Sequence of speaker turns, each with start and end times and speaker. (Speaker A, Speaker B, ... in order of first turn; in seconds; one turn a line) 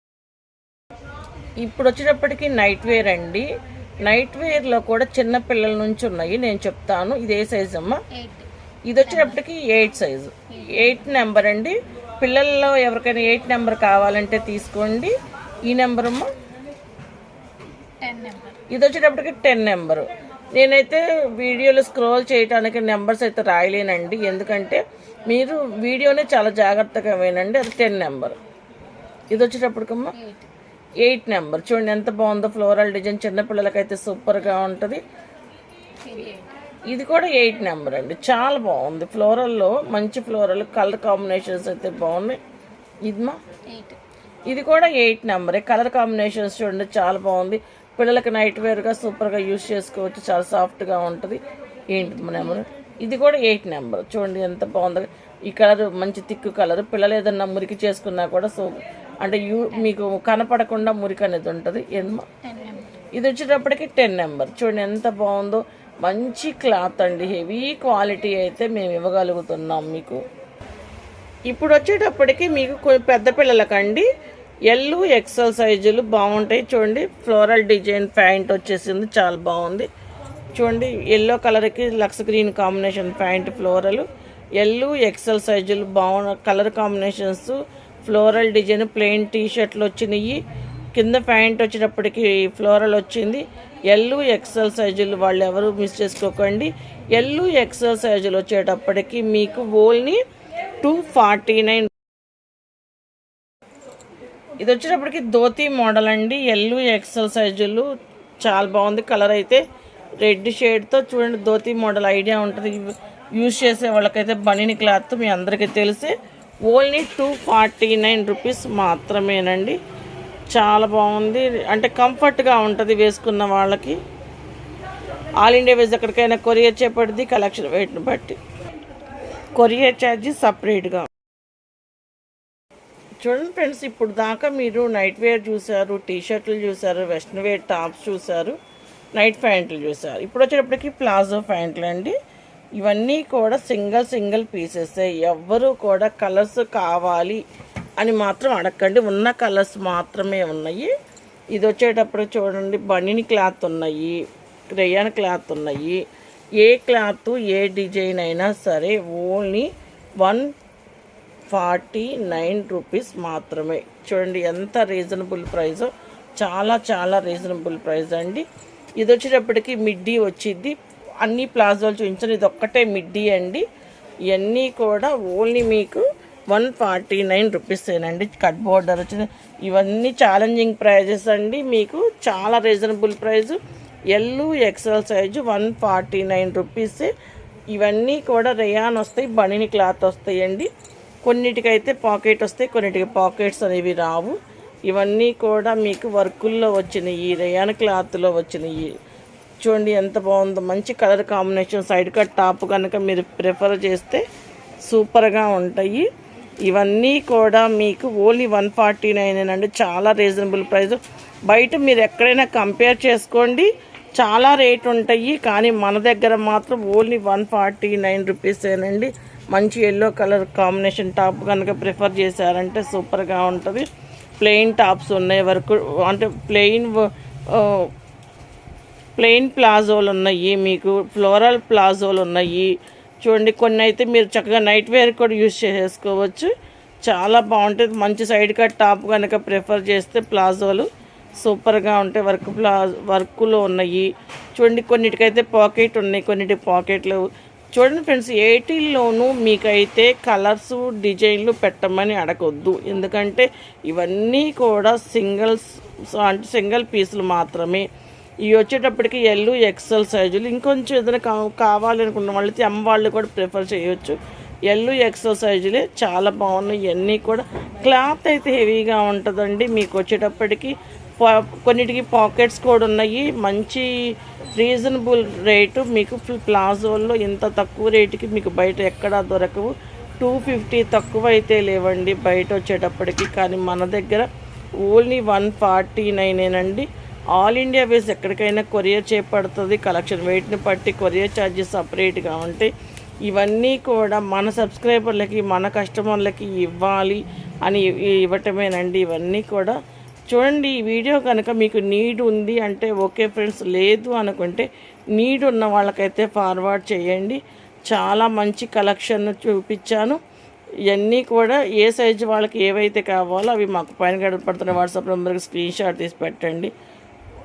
Speaker A: 1.6-3.5
Speaker A: 4.0-8.0
Speaker B: 8.1-8.5
Speaker A: 8.9-15.1
Speaker B: 9.0-9.4
Speaker B: 10.6-10.8
Speaker A: 15.7-16.3
Speaker B: 18.0-18.6
Speaker A: 18.7-28.4
Speaker A: 29.3-30.1
Speaker B: 30.1-30.4
Speaker A: 31.0-35.0
Speaker B: 36.0-36.5
Speaker A: 36.9-42.4
Speaker A: 43.0-43.4
Speaker B: 43.7-44.0
Speaker A: 44.5-51.4
Speaker A: 51.9-62.3
Speaker B: 52.0-52.6
Speaker B: 62.2-63.0
Speaker A: 63.1-70.2
Speaker A: 71.5-74.0
Speaker A: 74.7-79.9
Speaker A: 80.5-84.0
Speaker A: 84.6-90.4
Speaker A: 90.9-100.2
Speaker A: 100.8-101.9
Speaker A: 104.6-107.9
Speaker A: 108.4-109.6
Speaker A: 110.2-116.1
Speaker A: 116.7-119.8
Speaker A: 120.5-124.0
Speaker A: 125.4-128.4
Speaker A: 129.6-131.1
Speaker A: 133.2-138.6
Speaker A: 139.2-142.2
Speaker A: 142.8-147.4
Speaker A: 148.0-150.9
Speaker A: 151.5-154.2
Speaker A: 154.7-156.0
Speaker A: 156.6-159.7
Speaker A: 160.2-160.5
Speaker A: 161.5-168.4
Speaker A: 169.0-173.6
Speaker A: 174.3-183.6
Speaker A: 184.1-187.1
Speaker A: 187.7-190.7
Speaker A: 191.2-194.4
Speaker A: 194.9-198.9
Speaker A: 199.6-204.2
Speaker A: 204.8-206.1
Speaker A: 206.6-223.9
Speaker A: 224.4-227.9
Speaker A: 229.2-232.7
Speaker A: 233.2-236.5
Speaker A: 237.1-240.9
Speaker A: 241.4-244.1
Speaker A: 244.6-257.9
Speaker A: 258.5-264.2
Speaker A: 264.7-273.9
Speaker A: 274.6-284.3
Speaker A: 284.8-292.7
Speaker A: 293.2-299.8
Speaker A: 300.3-310.2
Speaker A: 310.9-316.7